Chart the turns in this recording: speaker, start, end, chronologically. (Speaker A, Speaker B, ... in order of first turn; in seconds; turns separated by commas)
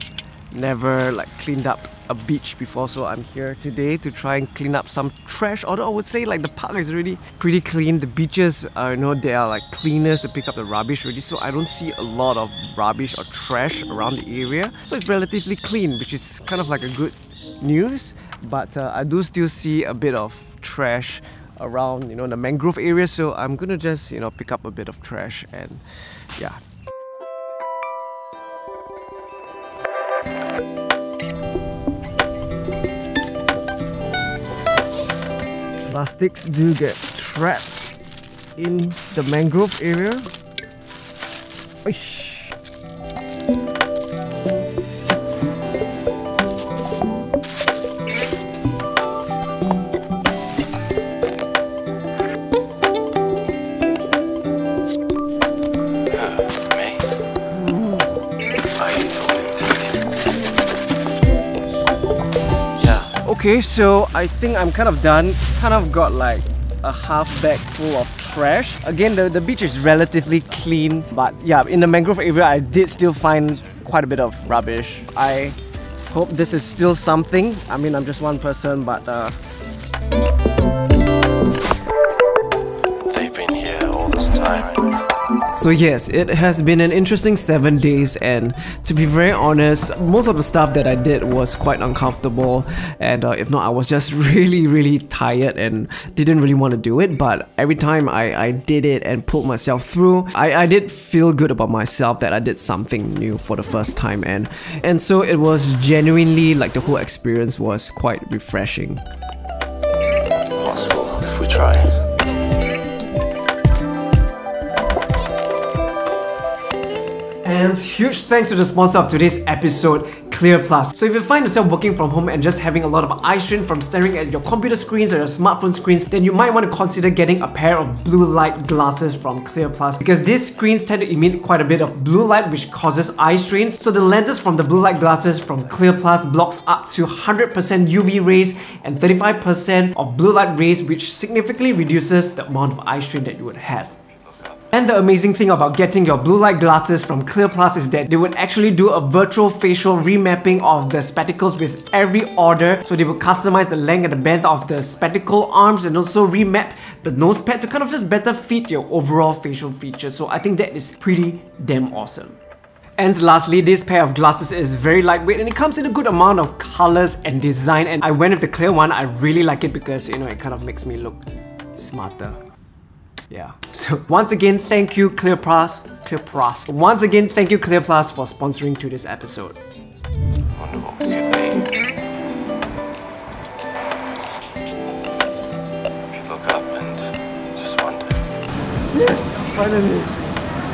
Speaker A: 0.5-26.6, Speaker A: 35.9-37.9, Speaker A: 38.5-40.3, Speaker A: 41.8-42.5, Speaker B: 56.1-57.0, Speaker A: 57.5-58.1, Speaker B: 58.7-60.1, Speaker B: 62.8-63.1, Speaker A: 63.2-75.6, Speaker A: 76.1-79.3, Speaker B: 83.1-85.0, Speaker A: 85.5-109.0, Speaker B: 110.6-111.9, Speaker A: 117.4-143.9, Speaker B: 144.2-144.6, Speaker A: 144.7-162.4, Speaker A: 163.0-172.4, Speaker A: 173.3-179.6, Speaker B: 180.6-181.7, Speaker B: 186.1-187.0, Speaker B: 187.6-188.1, Speaker A: 188.9-190.3